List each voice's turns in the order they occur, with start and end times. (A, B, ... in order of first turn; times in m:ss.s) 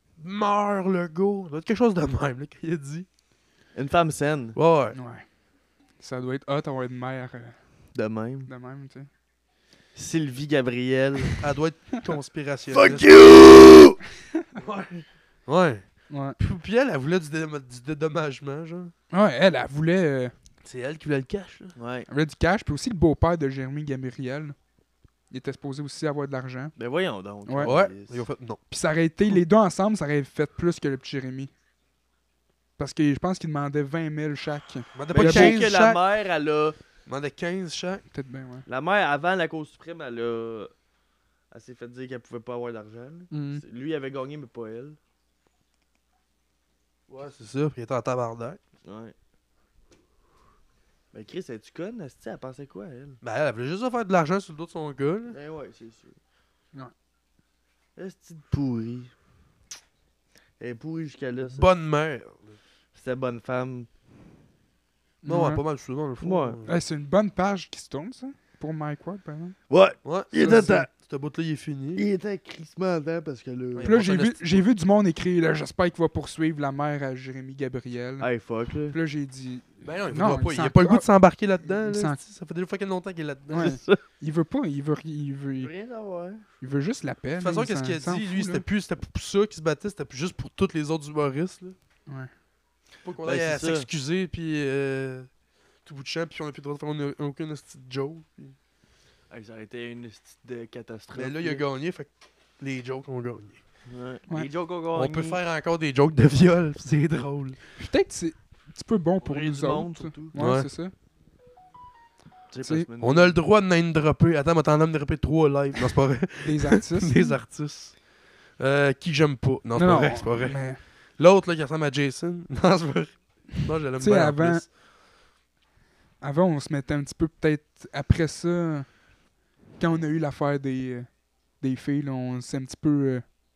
0:00.2-0:03.1 A
0:03.7-0:04.6 B
0:04.5-0:05.0 A
0:04.9-0:05.2 C
0:06.0-0:07.8 C
0:07.9-0:08.5 B
0:08.4-0:09.1 C
0:09.9-0:11.4 B
0:11.4-0:13.1 A
0:12.7-0:14.0 B
0:14.5-0:14.9 A
0:15.4-0:18.9 A
0:16.1-0:16.4 C
0:19.1-0:20.3 C
0:20.6-0:21.7 A
0:21.8-0:22.1 B
0:22.1-0:24.6 C
0:25.3-0:26.7 C
0:26.8-0:28.2 B
0:27.4-0:27.7 C
0:27.6-0:28.6 A
0:28.7-0:31.5 C
0:32.8-0:35.6 C
0:34.9-0:36.0 A
0:35.1-0:36.8 B
0:37.0-0:38.0 A
0:38.1-0:38.6 C
0:38.7-0:40.7 B
0:41.5-0:45.0 B
0:43.3-0:43.6 C
0:47.1-0:48.6 A
0:48.8-0:49.1 B
0:51.1-0:53.2 B
0:53.2-0:55.4 A
0:55.3-0:56.2 B
0:58.0-0:59.1 B
1:00.6-1:01.7 B
1:01.5-1:02.6 A
1:02.9-1:03.9 B
1:05.2-1:05.6 C
1:05.2-1:06.8 A
1:06.2-1:06.6 B
1:06.6-1:09.6 C
1:09.7-1:10.9 B
1:10.0-1:12.0 A
1:11.9-1:13.9 B
1:13.7-1:14.6 A
1:13.8-1:18.3 C
1:18.2-1:19.0 B
1:18.9-1:21.1 C
1:19.8-1:23.7 A
1:21.7-1:22.2 C
1:23.5-1:25.7 C
1:23.5-1:24.0 B
1:25.6-1:26.4 B
1:26.6-1:28.6 C
1:27.4-1:31.8 A
1:33.0-1:35.3 A
1:33.2-1:33.9 B
1:35.8-1:38.6 A
1:39.3-1:41.6 B
1:41.1-1:43.6 A
1:43.8-1:45.4 B
1:44.9-1:47.6 A
1:47.8-1:50.9 C
1:49.2-1:50.3 B
1:50.4-1:50.7 A
1:52.5-1:53.4 B
1:53.0-2:04.7 A
1:56.4-1:57.4 C
1:59.8-2:00.8 C
2:04.0-2:04.7 C
2:06.2-2:09.0 C
2:09.8-2:13.2 C